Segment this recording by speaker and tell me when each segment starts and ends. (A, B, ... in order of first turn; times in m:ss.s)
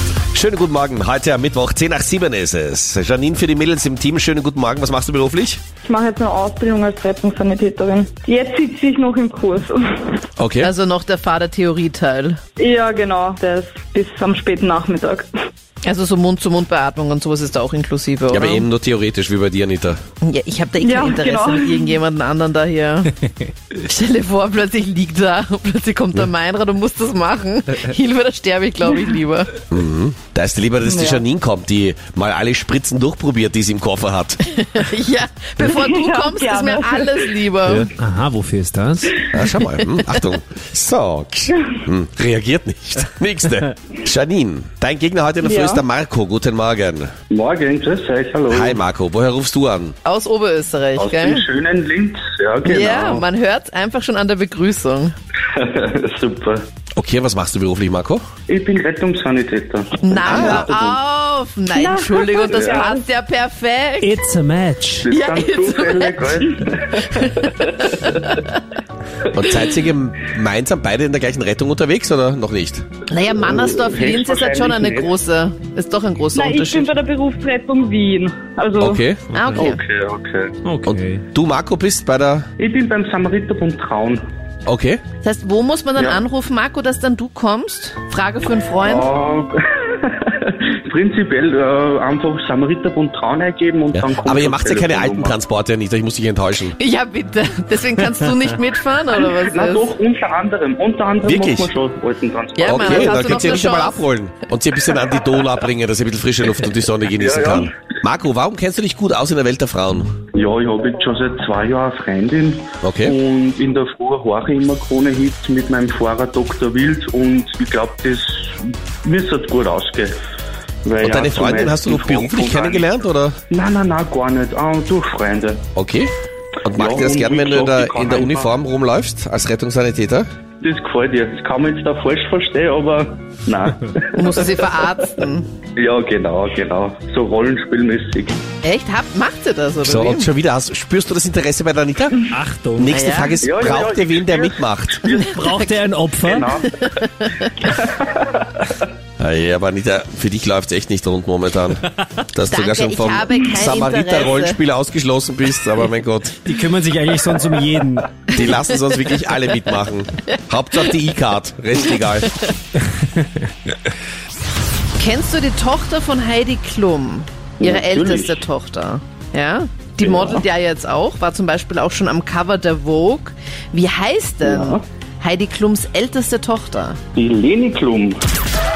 0:00.3-0:05.6 A
0:05.8-0:10.2 B
0:10.4-0:10.7 A
0:10.6-0:12.4 C
0:12.6-0:15.3 B
0:15.8-0:18.6 C
0:18.3-0:20.0 A
0:20.2-0:23.1 C
0:20.8-0:22.0 B
0:23.7-0:29.6 C
0:29.7-0:34.4 A
0:30.8-0:31.2 B
0:34.5-0:37.9 C
0:35.6-0:37.4 B
0:37.8-0:39.3 D
0:39.3-0:47.1 A
0:45.4-0:45.8 B
0:47.3-0:48.8 E
0:48.5-0:50.0 A
0:50.0-0:51.4 C
0:51.0-0:53.3 E
0:52.6-0:55.1 C
0:55.5-0:56.6 E
0:56.9-0:58.2 A
0:58.5-1:01.0 E
1:00.0-1:04.1 C
1:00.2-1:00.7 A
1:01.7-1:03.0 B
1:02.5-1:02.8 E
1:04.0-1:05.1 D
1:05.0-1:08.3 E
1:05.1-1:08.2 C
1:09.3-1:12.9 A
1:13.1-1:16.9 C
1:13.4-1:15.1 E
1:16.3-1:19.0 B
1:18.8-1:19.2 A
1:19.3-1:19.6 D
1:19.3-1:19.8 C
1:19.5-1:20.5 E
1:20.6-1:21.2 D
1:20.9-1:22.5 A
1:22.6-1:24.2 E
1:24.6-1:25.0 A
1:25.2-1:29.2 C
1:26.0-1:26.2 E
1:28.8-1:35.3 E
1:33.9-1:36.7 A
1:36.8-1:39.9 C
1:39.2-1:43.0 E
1:41.2-1:41.7 A
1:42.5-1:44.1 C
1:42.6-1:50.2 A
1:47.2-1:47.7 E
1:50.3-2:00.2 E
1:52.8-1:53.1 A
2:00.8-2:02.8 E
2:01.0-2:03.4 A
2:03.5-2:05.6 E
2:05.8-2:06.1 A
2:06.6-2:10.3 A
2:06.8-2:08.5 E
2:10.6-2:14.5 E
2:14.2-2:15.5 C
2:15.7-2:18.4 E
2:18.6-2:20.3 C
2:19.8-2:22.2 A
2:22.3-2:23.1 D
2:22.8-2:25.1 A
2:22.9-2:23.4 C
2:23.4-2:25.4 E
2:25.1-2:25.7 C
2:25.2-2:26.5 D
2:26.2-2:26.7 E
2:26.6-2:27.7 C
2:27.7-2:28.8 E
2:29.2-2:31.8 A
2:32.3-2:36.4 A
2:32.5-2:34.6 C
2:36.4-2:38.2 D
2:38.3-2:42.4 A
2:38.3-2:38.7 C
2:45.0-2:57.0 C
2:47.6-2:48.4 E
2:54.4-2:54.8 E
2:57.1-2:58.2 E